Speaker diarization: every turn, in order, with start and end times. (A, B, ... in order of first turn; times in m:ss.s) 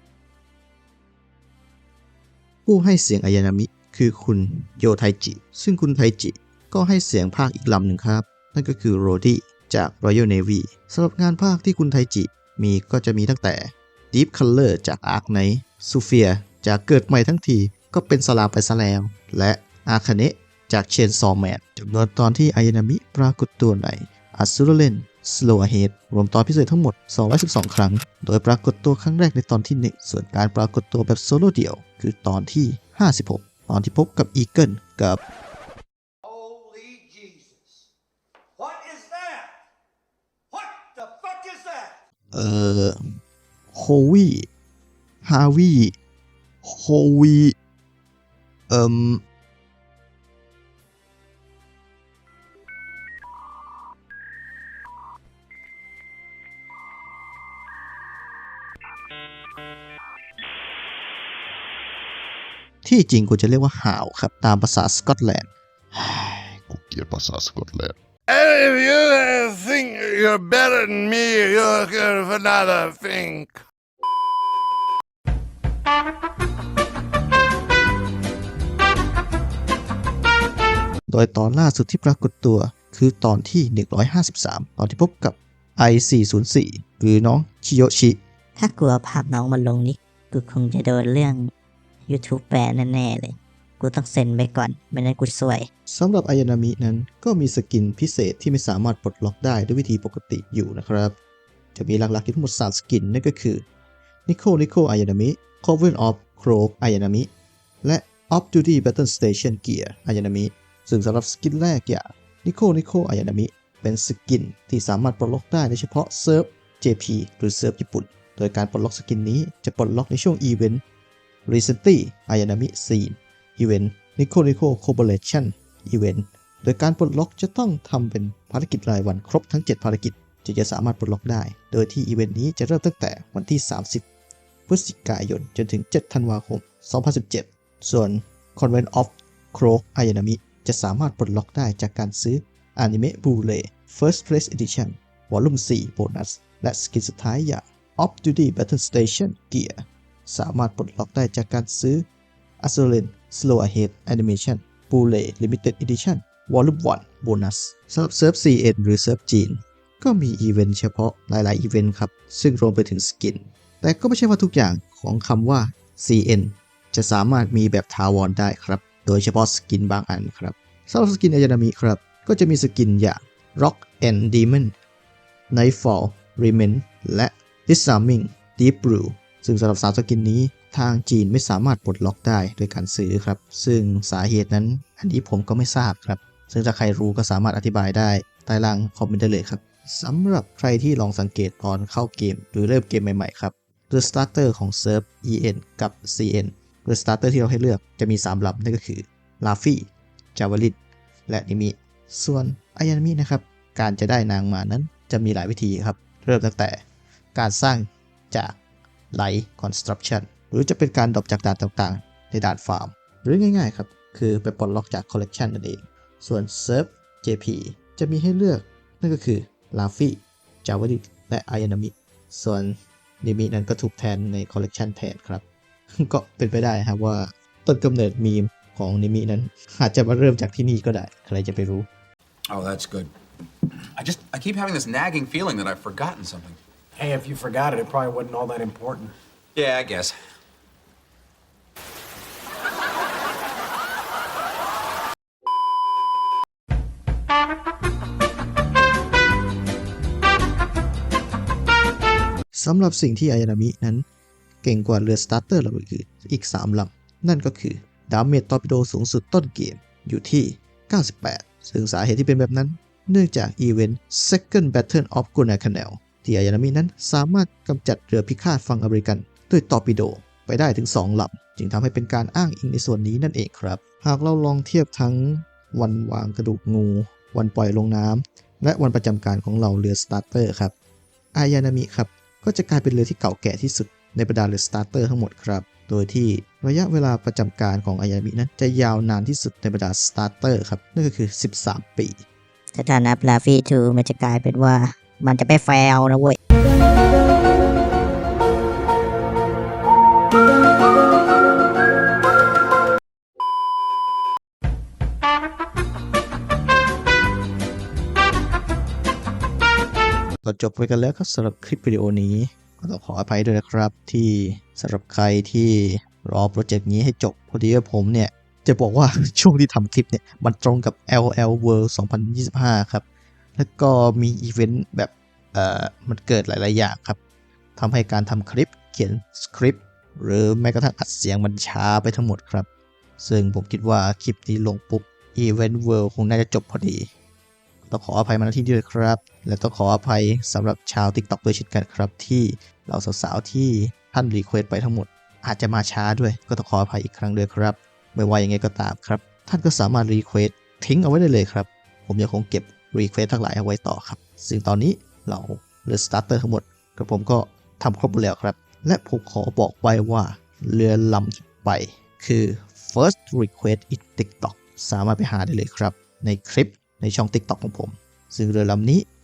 0:02.6-0:35.2 A
0:36.2-0:37.9 B
0:38.6-0:39.6 B
0:40.5-0:42.0 B
0:42.3-0:43.0 A
0:43.7-0:44.5 A
0:45.2-0:45.9 A
0:46.6-0:47.5 A
0:48.7-0:49.2 A
1:02.8-1:05.5 A
1:06.0-1:08.0 C
1:08.3-1:13.6 D
1:08.8-1:09.2 C
1:09.8-1:11.0 C
1:21.1-1:28.2 A
1:28.6-1:31.5 E
1:32.1-1:35.7 E
1:35.9-1:41.1 A
1:41.7-1:43.6 A
1:44.3-1:47.3 A
1:47.8-2:00.8 A
2:01.4-2:14.0 A
2:14.7-2:32.0 A
2:32.6-2:54.7 A
2:55.5-3:20.8 A
3:21.3-3:26.8 A
3:27.3-3:28.6 A
3:29.1-3:45.4 A
3:46.0-3:51.9 A
3:52.5-3:53.1 F
3:54.0-3:56.6 F
3:57.0-3:59.1 B
3:59.5-4:00.1 F
4:12.5-4:14.0 A
4:14.6-4:40.7 A
4:41.3-4:52.2 A
4:52.7-4:56.4 E
5:10.4-5:23.0 A
5:23.6-5:27.2 A
5:27.8-5:32.7 A
5:33.2-5:37.1 A
5:37.9-6:09.0 A